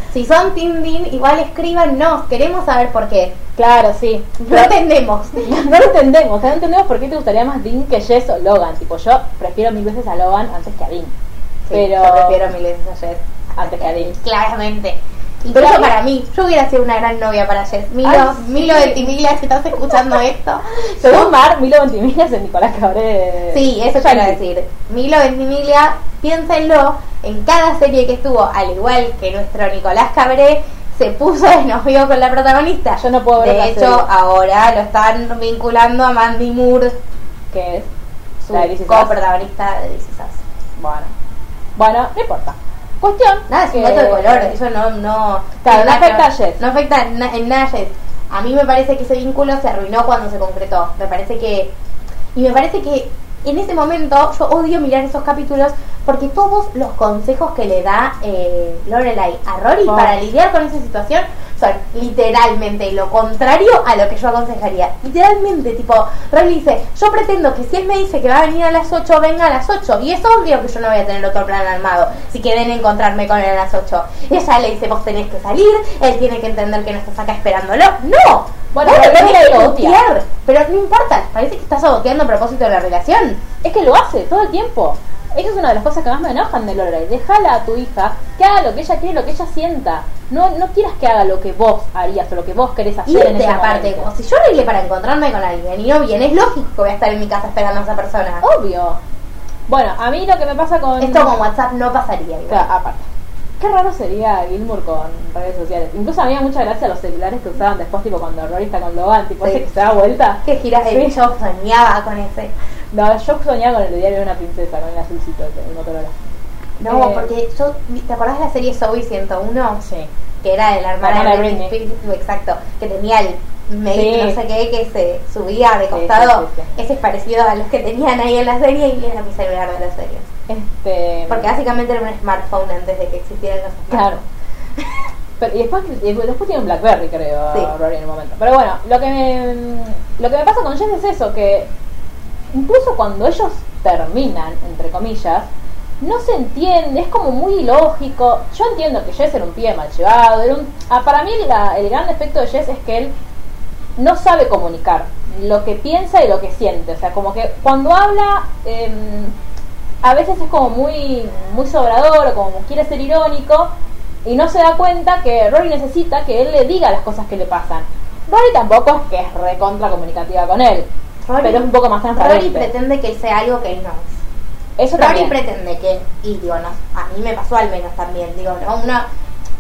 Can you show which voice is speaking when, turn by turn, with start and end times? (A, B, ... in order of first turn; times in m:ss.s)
0:00.1-0:03.4 A
0:03.6-0:04.8 B
0:04.5-0:05.6 A
0:05.4-0:11.1 B
0:11.7-0:21.3 A
0:11.7-0:12.4 B
0:13.6-0:14.2 B
0:15.5-0:15.9 B
0:18.0-0:19.1 B
0:20.8-0:24.4 B
0:23.5-0:37.0 A
0:33.0-0:34.1 B
0:37.5-0:37.9 B
0:38.4-0:40.4 A
0:38.5-0:39.2 B
0:40.8-0:41.1 B
0:41.8-0:44.6 B
0:43.5-0:51.7 A
0:45.6-0:46.6 B
0:52.3-1:23.4 A
0:59.8-1:00.2 B
1:18.7-1:20.0 B
1:23.6-1:34.1 B
1:33.1-1:38.4 A
1:38.4-1:39.0 B
1:39.7-1:41.4 B
1:41.0-1:42.7 A
1:42.5-1:43.0 B
1:43.6-1:51.2 B
1:50.4-1:52.5 A
1:52.9-1:56.1 B
1:56.8-1:59.9 A
1:56.9-1:57.3 B
2:00.4-2:10.3 A
2:01.0-2:01.8 B
2:03.9-2:04.4 B
2:05.9-2:06.7 B
2:10.5-2:11.5 B
2:11.3-2:14.1 A
2:13.9-2:14.2 B
2:15.4-2:21.7 B
2:22.5-2:25.5 B
2:26.0-2:33.1 B
2:34.0-2:39.3 B
2:40.0-2:43.7 B
2:44.2-2:50.9 B
2:51.3-2:54.2 A
2:51.4-2:52.7 B
2:54.8-2:55.4 B
2:55.0-2:59.1 A